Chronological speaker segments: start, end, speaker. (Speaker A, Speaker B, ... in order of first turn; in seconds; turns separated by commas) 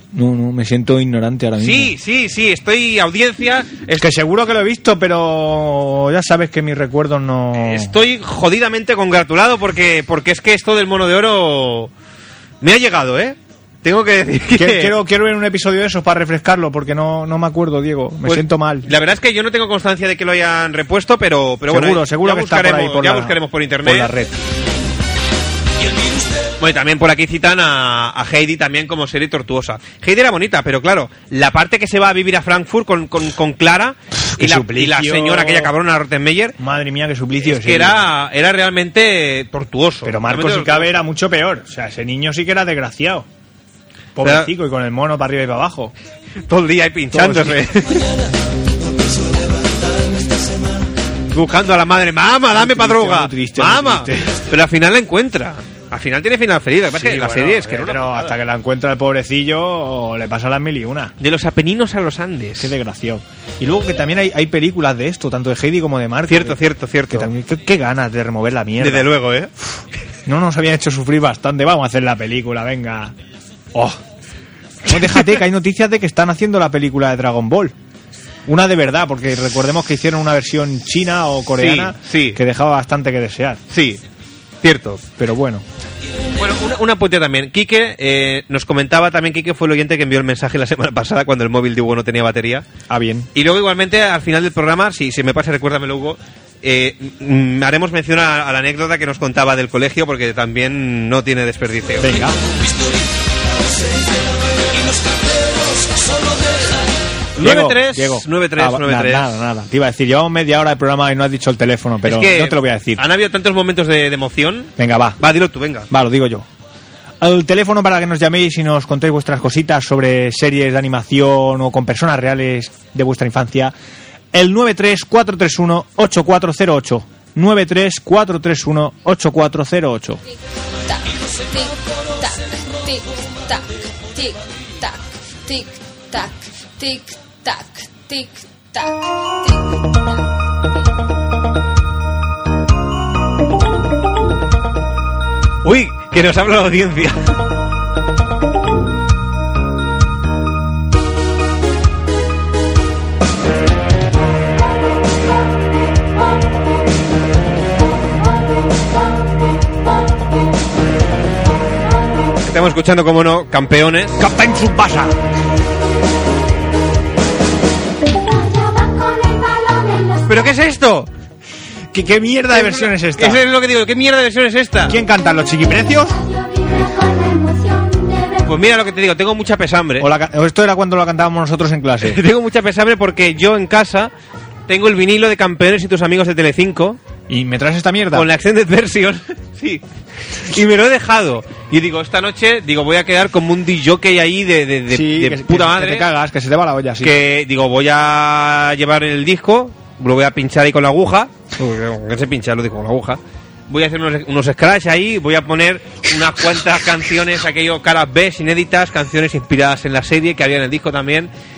Speaker A: 0.1-1.9, Speaker B: 1.6-4.1, Speaker A: 4.0-7.9, Speaker B: 7.5-11.9, Speaker B: 12.6-14.9, Speaker A: 14.6-18.9, Speaker B: 18.2-24.1, Speaker A: 21.7-24.3, Speaker B: 26.6-36.6, Speaker A: 34.4-35.7, Speaker A: 36.6-38.0, Speaker B: 37.4-41.0, Speaker A: 40.0-43.2, Speaker A: 44.1-45.9, Speaker B: 44.2-44.5, Speaker B: 46.5-48.1, Speaker A: 47.1-47.6, Speaker B: 51.3-58.4, Speaker A: 52.5-54.4, Speaker A: 56.9-61.1, Speaker B: 61.2-62.7, Speaker A: 62.6-66.6, Speaker B: 66.3-67.3, Speaker A: 67.1-69.1, Speaker B: 68.8-69.5, Speaker A: 70.2-73.1, Speaker A: 73.7-74.0, Speaker A: 74.8-77.7, Speaker A: 78.5-83.6, Speaker B: 81.6-82.4, Speaker B: 83.7-84.0, Speaker B: 84.6-85.0, Speaker A: 85.2-85.6, Speaker B: 86.3-92.7, Speaker A: 92.9-93.3, Speaker B: 93.3-102.2, Speaker A: 102.0-102.3, Speaker B: 107.3-109.3, Speaker A: 107.4-113.0, Speaker B: 112.0-115.9, Speaker A: 114.8-115.2, Speaker A: 115.9-116.5, Speaker A: 117.2-123.7, Speaker A: 124.3-130.2, Speaker C: 130.7-140.2, Speaker B: 145.6-147.3, Speaker B: 162.4-164.2, Speaker A: 164.2-165.1, Speaker B: 170.2-171.1, Speaker A: 171.9-173.4, Speaker B: 172.5-175.0, Speaker A: 174.9-176.3, Speaker C: 177.2-177.8, Speaker B: 178.4-180.1, Speaker A: 180.0-182.2, Speaker B: 182.0-184.1, Speaker B: 184.7-187.0, Speaker A: 187.3-188.3, Speaker B: 188.1-189.8, Speaker B: 190.5-196.1, Speaker A: 194.9-197.1, Speaker B: 197.0-211.3